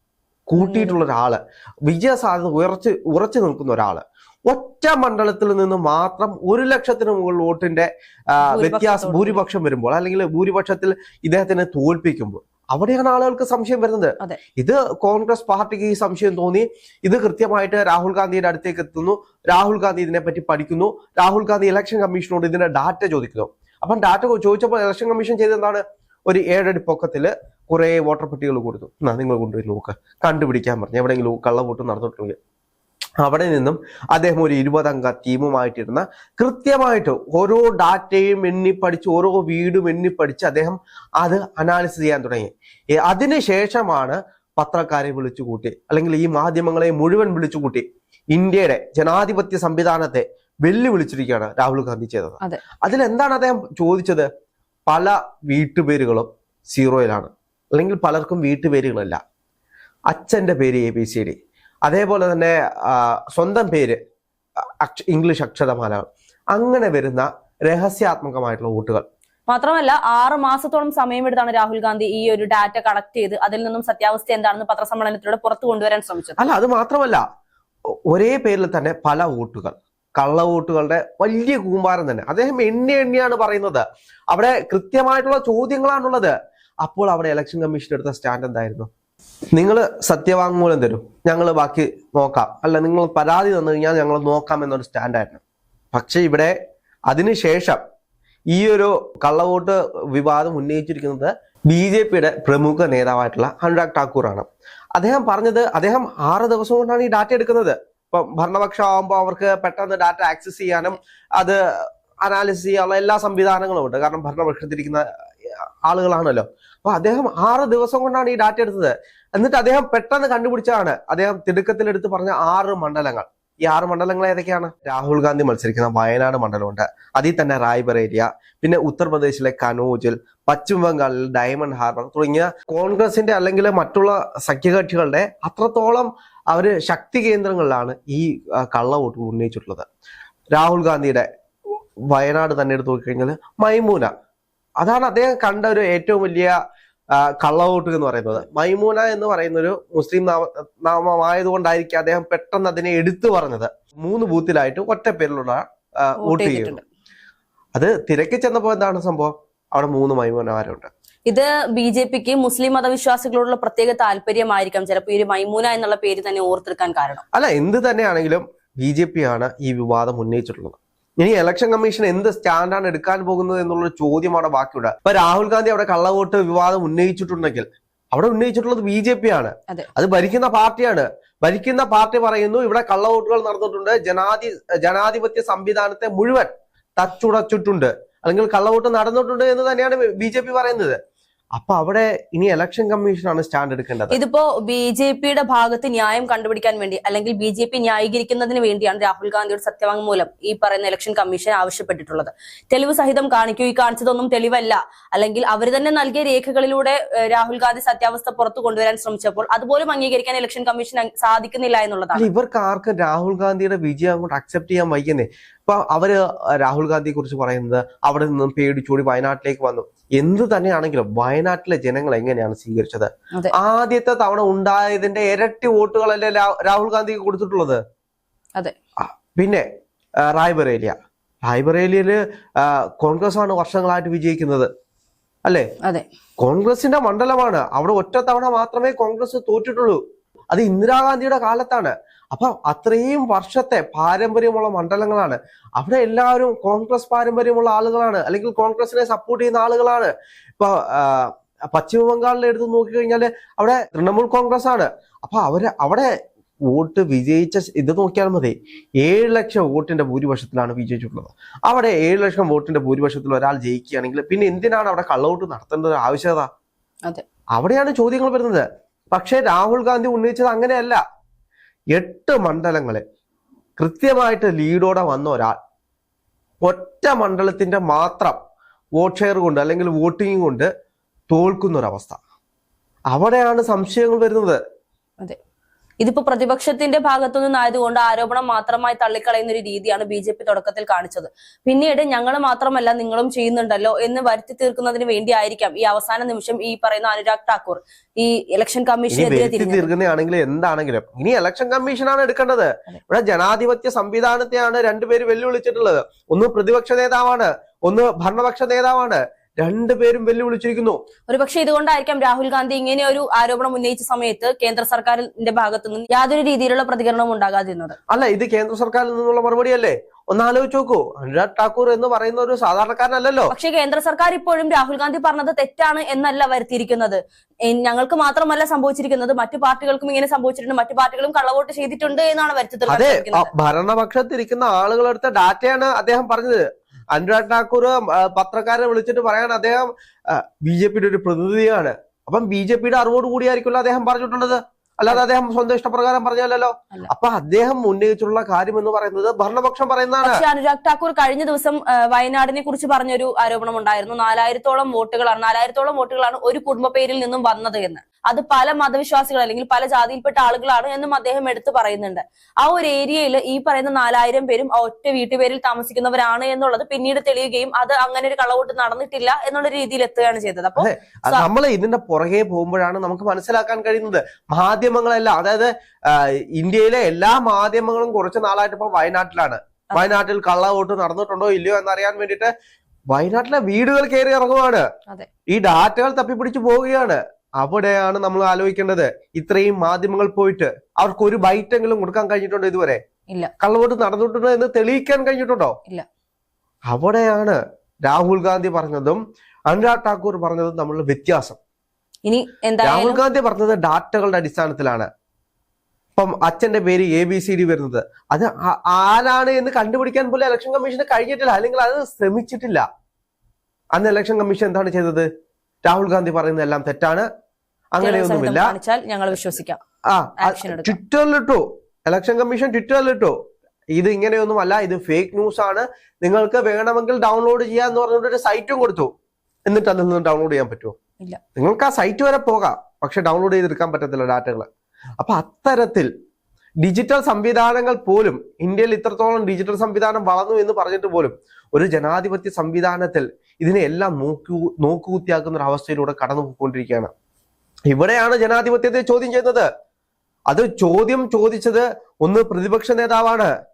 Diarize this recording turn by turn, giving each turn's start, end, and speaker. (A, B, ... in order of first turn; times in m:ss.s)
0:00.5-0:32.4 A
0:00.6-0:01.0 B
0:08.4-0:09.4 B
0:33.2-0:54.3 A
0:54.9-0:59.2 A
1:00.1-1:04.0 A
1:04.8-1:09.0 A
1:09.5-1:16.5 B
1:16.4-1:17.2 A
1:18.1-1:28.9 A
1:29.5-1:35.4 A
1:35.9-1:36.5 A
1:37.1-1:37.8 A
1:38.5-2:19.8 A
2:20.5-2:21.3 A
2:22.1-2:24.1 A
2:24.8-2:26.6 A
2:27.2-2:36.8 A
2:36.2-2:36.8 B
2:37.7-2:40.9 A
2:41.2-2:47.2 B
2:47.3-3:11.0 A
3:11.5-3:14.2 A
3:14.1-3:32.3 B
3:32.1-3:47.8 A
3:49.0-3:49.6 A
3:50.2-3:54.7 A
3:56.4-4:00.0 A
4:00.5-4:16.1 A
4:16.7-4:26.5 A
4:27.6-4:31.0 A
4:31.9-4:33.0 A
4:33.8-4:35.6 A
4:36.6-4:38.4 A
4:39.0-4:40.7 A
4:41.3-4:42.2 A
4:43.1-4:44.6 A
4:46.0-4:59.9 B
4:59.1-5:11.0 A
5:11.3-5:18.0 B
5:18.1-5:23.5 A
5:23.5-5:33.5 B
5:32.9-5:50.4 A
5:50.2-6:11.4 B
6:10.8-6:22.5 A
6:23.1-6:24.8 A
6:25.5-6:33.0 A
6:33.6-6:35.8 A
6:36.9-6:41.6 A
6:42.2-6:43.2 B
6:42.8-6:45.1 A
6:46.2-6:52.8 A
6:53.9-6:55.3 A
6:55.8-6:57.2 A
6:57.9-6:58.7 A
6:58.0-6:59.8 B
7:00.1-7:03.4 A
7:00.4-7:01.0 B
7:03.9-7:09.1 A
7:09.7-7:11.0 A
7:11.6-7:14.7 A
7:15.2-7:16.1 A
7:16.8-7:27.1 A
7:27.9-7:29.7 A
7:30.5-7:33.5 A